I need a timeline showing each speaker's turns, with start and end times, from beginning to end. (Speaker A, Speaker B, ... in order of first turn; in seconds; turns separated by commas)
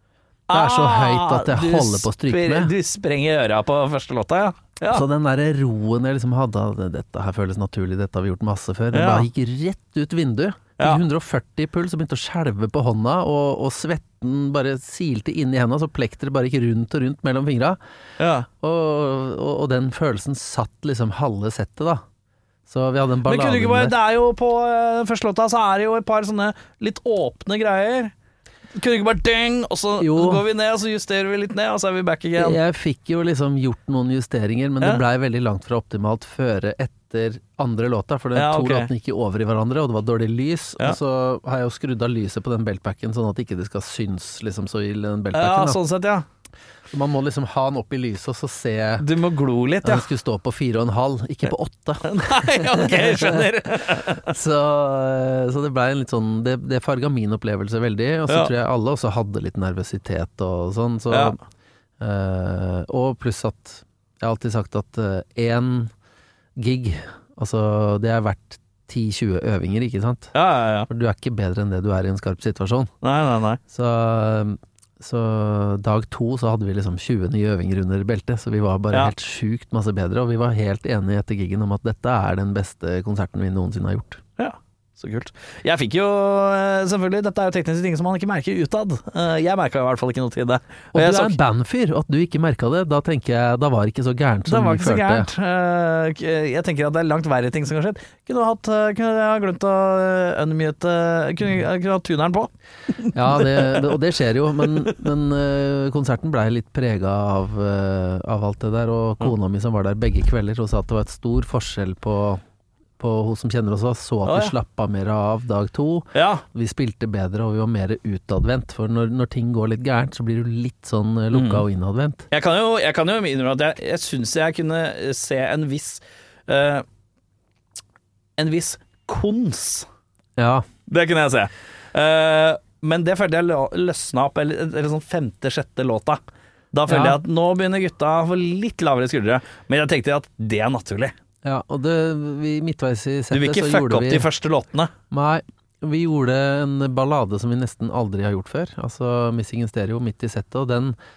Speaker A: 0.5-5.0, Speaker B: 0.5-2.7, Speaker B: 4.9-17.8, Speaker A: 8.9-9.3, Speaker A: 18.2-18.5, Speaker B: 18.5-22.0, Speaker B: 22.7-23.9, Speaker A: 23.2-28.1, Speaker A: 28.7-32.6, Speaker B: 30.0-30.4, Speaker B: 32.4-45.8, Speaker A: 38.3-38.9, Speaker A: 45.3-46.2, Speaker B: 46.9-49.0, Speaker A: 49.0-50.0, Speaker B: 49.8-61.4, Speaker A: 52.0-54.3, Speaker A: 61.1-61.4, Speaker B: 62.0-65.9, Speaker B: 66.5-70.3, Speaker A: 70.3-70.9, Speaker B: 70.9-72.9, Speaker A: 73.0-73.6, Speaker B: 73.7-84.2, Speaker A: 84.4-91.4, Speaker B: 90.9-95.3, Speaker A: 94.5-103.9, Speaker B: 103.1-112.4, Speaker B: 113.0-122.2, Speaker A: 114.2-114.5, Speaker A: 116.1-116.4, Speaker A: 121.3-121.6, Speaker A: 122.3-126.8, Speaker A: 128.4-129.9, Speaker B: 130.4-130.7, Speaker A: 130.9-136.2, Speaker A: 136.7-141.1, Speaker B: 136.9-137.2, Speaker B: 141.4-144.3, Speaker A: 143.3-144.9, Speaker B: 145.1-150.9